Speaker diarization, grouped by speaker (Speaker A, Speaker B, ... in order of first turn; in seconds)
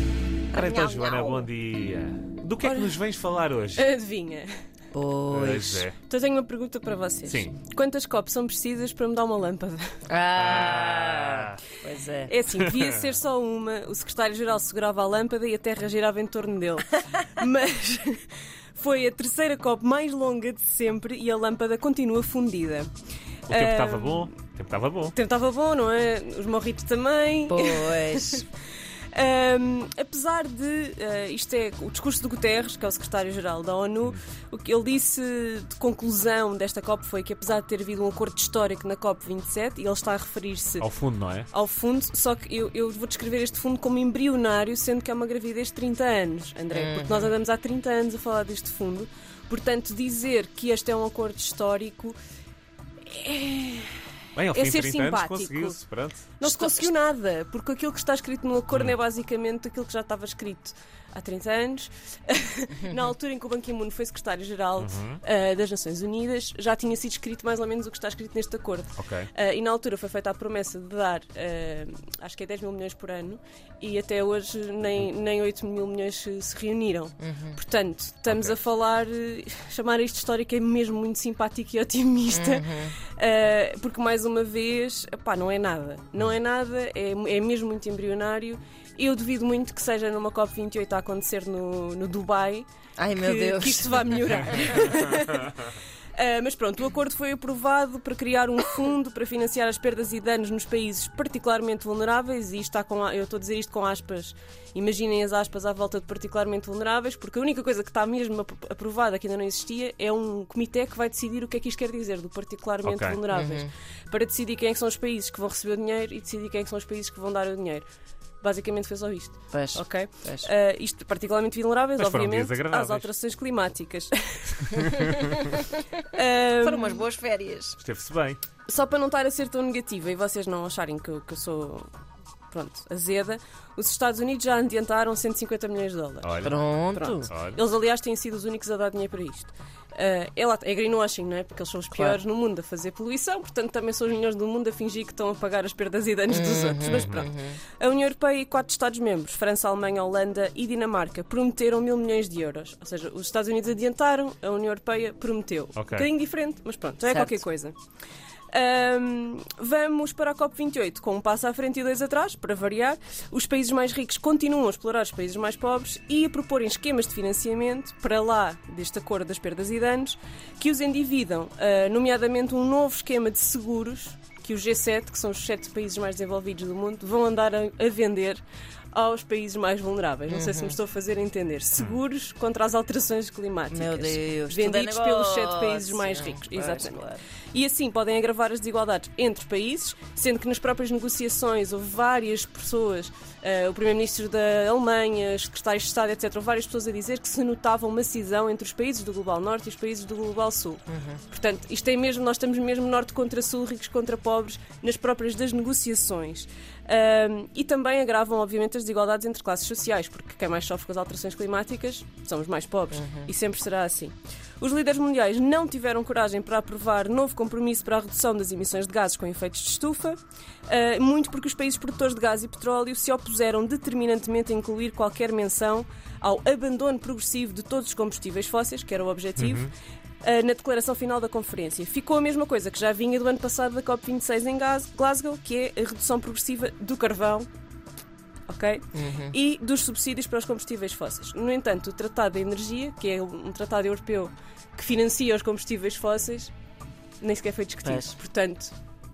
Speaker A: 0.5-1.5, 4.9-5.9, 10.1-12.3, 27.5-28.4, 46.7-47.3, 77.2-77.6, 82.3-83.0, 93.0-94.8, 113.3-113.7, 119.5-120.5, 125.2-125.6, 126.6-127.8, 136.4-137.3, 146.3-147.6, 157.1-157.4, 180.3-180.8, 183.7-187.2, 200.9-201.2, 212.9-213.3, 238.9-239.4, 247.8-248.2
Speaker B: 0.5-3.9, 5.3-6.0, 7.3-7.6, 10.4-11.6, 12.6-12.9, 23.5-25.2, 40.8-41.5, 54.4-56.4, 64.8-65.2, 69.0-69.3, 78.3-78.6, 112.8-113.2, 122.0-123.1, 124.8-125.2, 127.8-128.4, 136.2-136.6, 137.3-137.6, 146.9-147.3, 155.8-156.1, 229.4-229.7
Speaker C: 2.6-3.0, 3.8-4.5, 6.0-9.9, 12.3-22.9, 23.5-24.3, 25.1-28.5, 29.1-40.9, 41.5-52.2, 53.0-55.8, 56.4-92.7, 93.2-117.9, 118.4-125.5, 126.1-127.1, 128.7-131.9, 132.5-157.7, 158.5-178.4, 178.9-229.7, 230.2-237.5, 238.5-246.5, 247.2-248.8